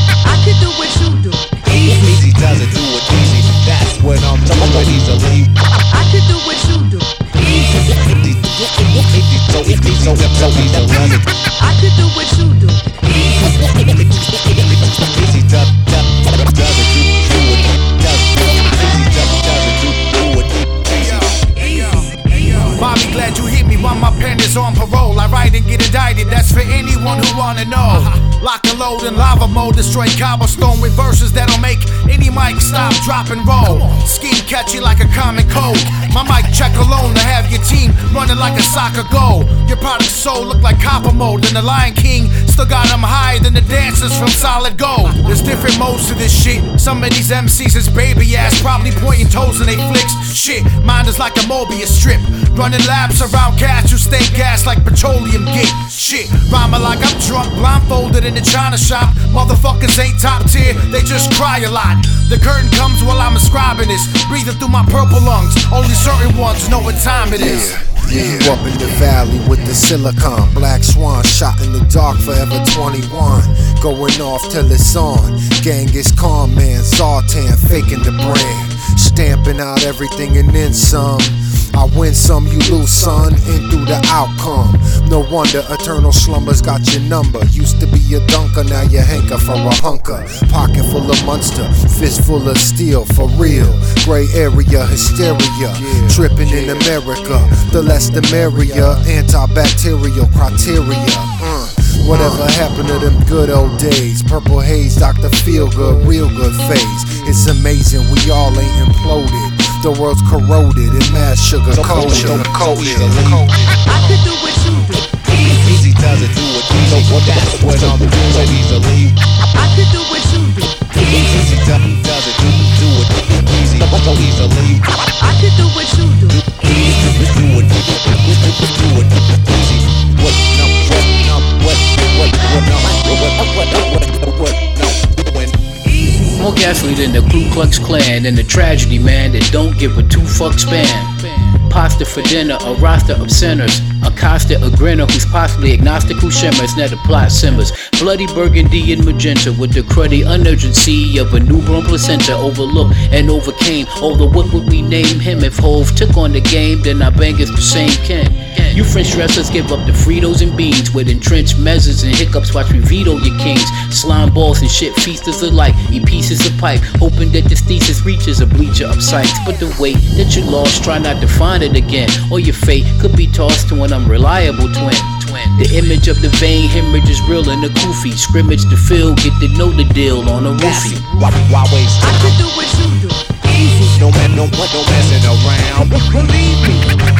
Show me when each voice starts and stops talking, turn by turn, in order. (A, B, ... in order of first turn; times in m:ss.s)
0:00.2-0:01.7 A
0:01.6-0:05.5 B
0:05.9-0:07.8 A
0:07.8-0:11.5 B
0:11.6-0:13.1 A
0:13.4-0:21.4 B
0:20.9-1:08.6 C
1:07.3-1:53.4 D
1:36.4-1:37.5 C
1:51.7-1:53.6 B
1:53.9-1:55.2 A
1:55.2-1:59.2 B
1:59.5-2:00.8 A
2:00.9-2:05.0 B
2:05.2-2:06.3 A
2:06.3-2:15.6 B
2:15.8-2:16.4 A
2:16.3-3:01.0 E
3:00.6-3:02.4 B
3:02.0-3:03.9 A
3:03.9-3:06.2 B
3:06.1-3:06.9 A